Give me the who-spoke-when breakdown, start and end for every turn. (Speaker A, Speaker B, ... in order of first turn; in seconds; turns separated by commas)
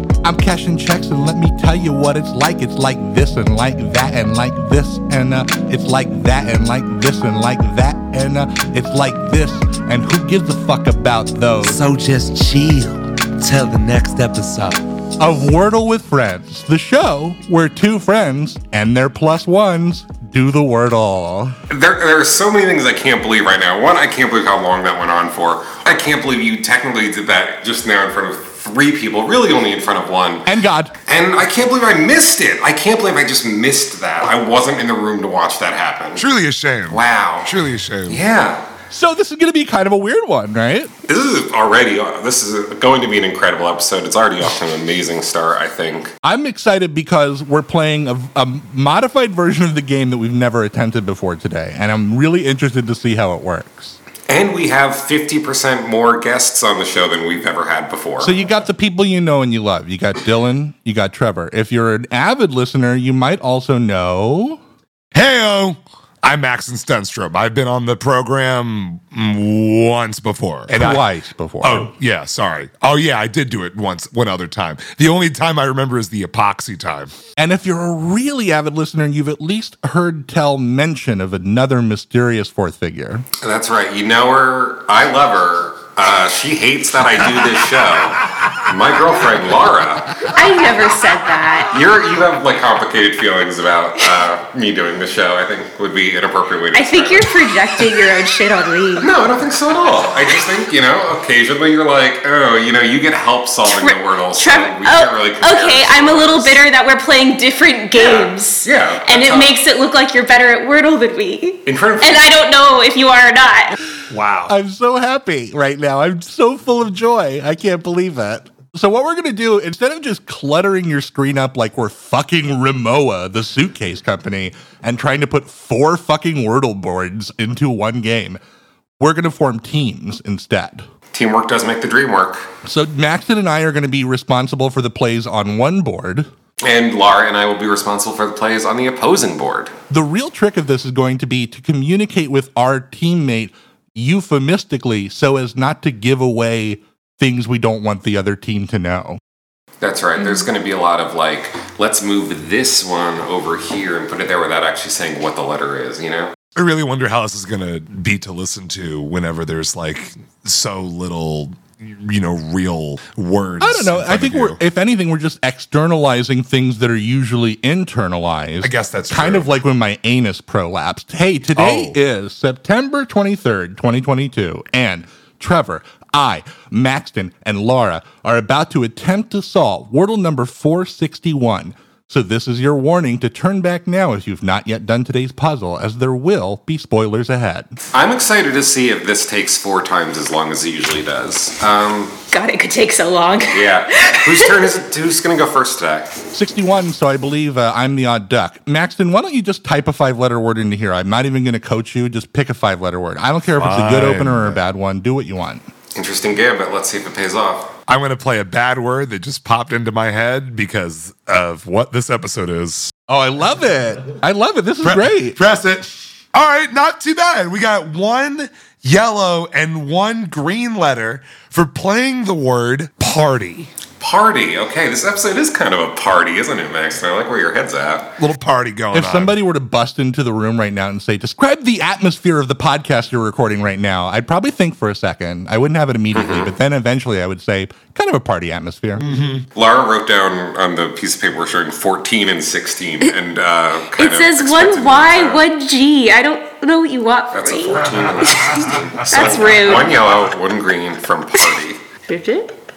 Speaker A: 0.2-11.8, Speaker B: 12.0-12.9, Speaker B: 13.4-14.5, Speaker A: 15.2-21.5, Speaker C: 21.7-30.5, Speaker A: 30.4-30.9, Speaker C: 31.1-36.2, Speaker D: 36.1-38.2, Speaker C: 36.9-37.5, Speaker C: 38.1-38.6, Speaker A: 38.9-40.9, Speaker C: 41.0-46.1, Speaker A: 46.2-54.0, Speaker C: 54.3-58.3, Speaker A: 58.2-64.6, Speaker D: 65.1-71.0, Speaker A: 70.7-71.9, Speaker D: 71.6-77.1, Speaker A: 77.4-83.2, Speaker C: 83.4-90.3, Speaker E: 90.3-91.7, Speaker C: 91.7-97.3, Speaker E: 96.7-99.1, Speaker C: 99.0-106.6, Speaker E: 103.7-113.8, Speaker C: 107.9-109.5, Speaker C: 111.7-112.4, Speaker D: 114.1-114.5, Speaker A: 114.5-128.4, Speaker A: 129.0-130.8, Speaker C: 131.1-132.4, Speaker A: 132.6-136.3, Speaker C: 136.6-139.7, Speaker A: 139.9-149.2, Speaker C: 149.8-156.3, Speaker E: 150.2-150.5, Speaker D: 156.6-164.6, Speaker A: 163.6-187.7, Speaker D: 168.6-169.5, Speaker D: 171.5-172.0, Speaker C: 187.9-192.2, Speaker E: 192.3-194.5, Speaker C: 193.5-196.1, Speaker A: 196.3-205.7, Speaker D: 203.6-204.6, Speaker C: 205.9-207.7, Speaker D: 207.9-212.9, Speaker A: 213.1-215.4, Speaker D: 214.8-223.7, Speaker C: 224.0-228.1, Speaker D: 228.2-229.3, Speaker A: 228.9-239.0, Speaker C: 236.1-236.6, Speaker D: 239.0-239.4, Speaker C: 239.5-245.4, Speaker E: 243.9-250.0, Speaker C: 247.3-251.8, Speaker E: 252.1-252.5